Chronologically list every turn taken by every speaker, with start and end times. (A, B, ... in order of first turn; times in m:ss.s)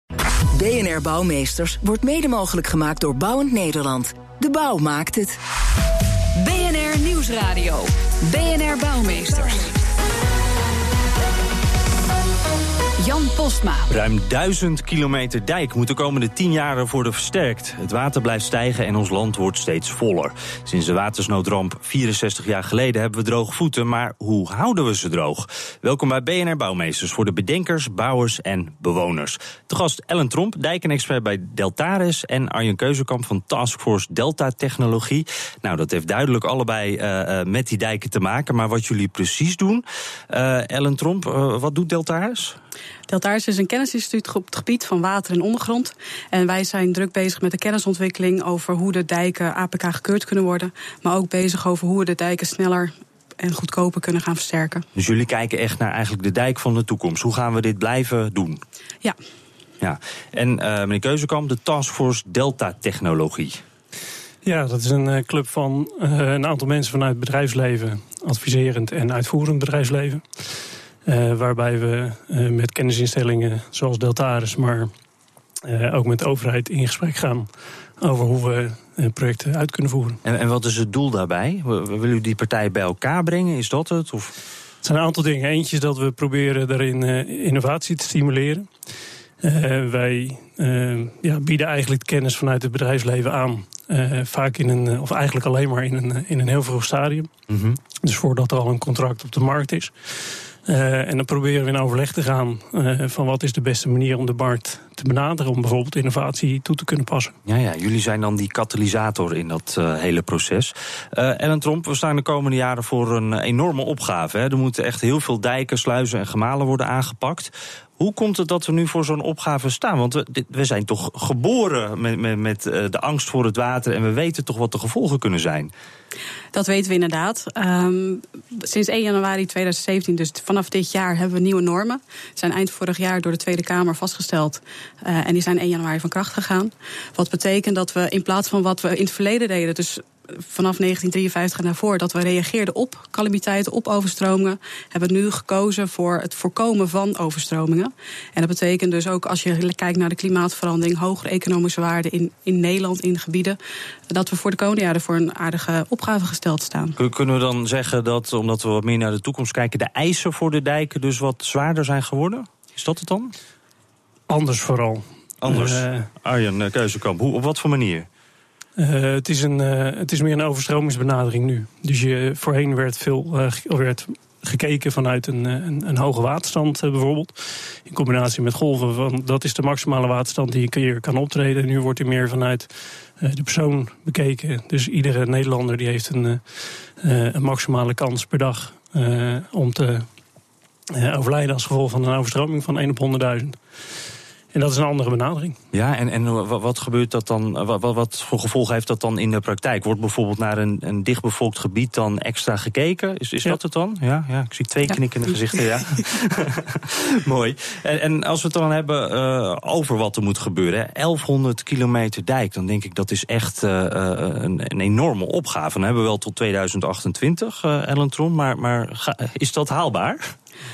0:00.6-0:05.4 A
0:06.4-0:09.7 B
0:13.0-0:13.9 B
0:13.9-0:42.6 C
0:43.1-0:54.8 D
0:54.9-0:58.6 C
0:59.8-1:03.6 C
1:04.4-1:10.4 E
1:11.0-1:14.9 E
1:15.6-1:20.2 E
1:20.2-1:24.3 C
1:24.8-1:28.7 E
1:29.4-1:37.3 E
1:37.5-1:37.8 C
1:38.0-1:39.9 E
1:40.6-1:47.3 E
1:47.4-2:05.7 C
2:06.5-2:33.6 D
2:34.1-2:37.0 D
2:37.0-2:43.3 C
2:44.3-2:46.1 E
2:45.4-2:48.1 C
2:48.8-3:10.1 E
3:10.9-3:13.6 E
3:14.5-3:15.6 E
3:15.7-3:40.3 C